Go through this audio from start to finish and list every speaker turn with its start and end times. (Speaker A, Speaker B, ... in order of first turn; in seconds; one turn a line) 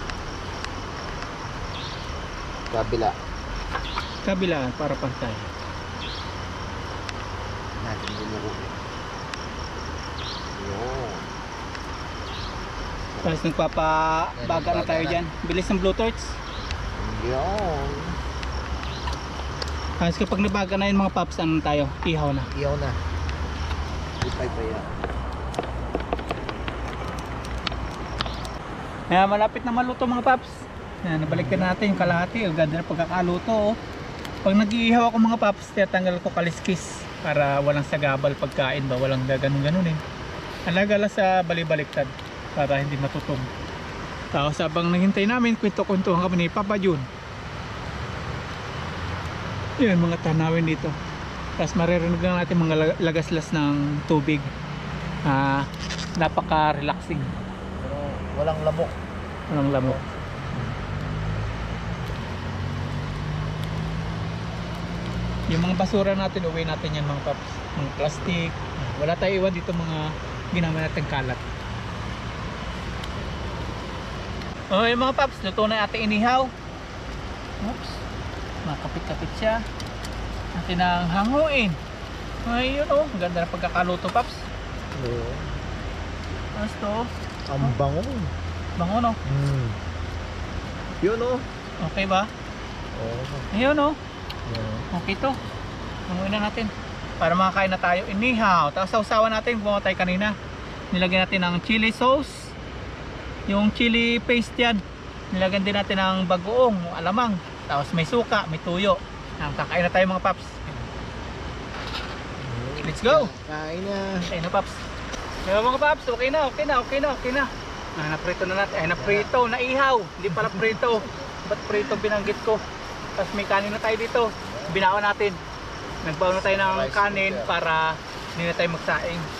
Speaker A: 2.7-3.1
Speaker B: 4.2-5.5
Speaker A: 7.8-8.8
Speaker A: 10.5-11.3
Speaker A: 13.1-13.4
Speaker B: 13.2-16.4
Speaker A: 14.3-15.2
Speaker A: 17.0-18.1
Speaker B: 20.0-22.5
Speaker A: 22.5-22.9
Speaker A: 24.2-24.9
Speaker B: 29.1-33.8
Speaker B: 34.4-40.0
Speaker B: 40.7-43.5
Speaker B: 44.3-47.1
Speaker B: 49.8-50.9
Speaker B: 51.6-54.5
Speaker B: 55.3-55.7
Speaker B: 56.2-57.3
Speaker A: 57.8-58.9
Speaker B: 59.5-60.0
Speaker B: 65.5-71.4
Speaker B: 74.7-76.5
Speaker B: 77.6-78.0
Speaker B: 78.6-79.6
Speaker B: 80.5-81.8
Speaker B: 82.5-84.5
Speaker A: 84.9-85.5
Speaker B: 86.5-87.1
Speaker A: 87.5-88.3
Speaker B: 88.8-89.2
Speaker A: 89.2-89.8
Speaker A: 91.0-91.4
Speaker B: 91.8-92.3
Speaker A: 92.9-93.5
Speaker B: 93.5-94.0
Speaker A: 94.5-94.8
Speaker B: 94.9-95.3
Speaker B: 96.1-100.3
Speaker B: 100.9-102.5
Speaker B: 103.5-104.8
Speaker B: 105.3-110.9
Speaker A: 112.4-114.3
Speaker B: 112.8-113.3
Speaker B: 114.3-114.8
Speaker B: 115.4-122.6
Speaker A: 119.0-119.3
Speaker A: 120.3-121.0
Speaker B: 123.2-125.4
Speaker A: 124.4-124.8
Speaker B: 126.0-129.3
Speaker A: 126.3-127.5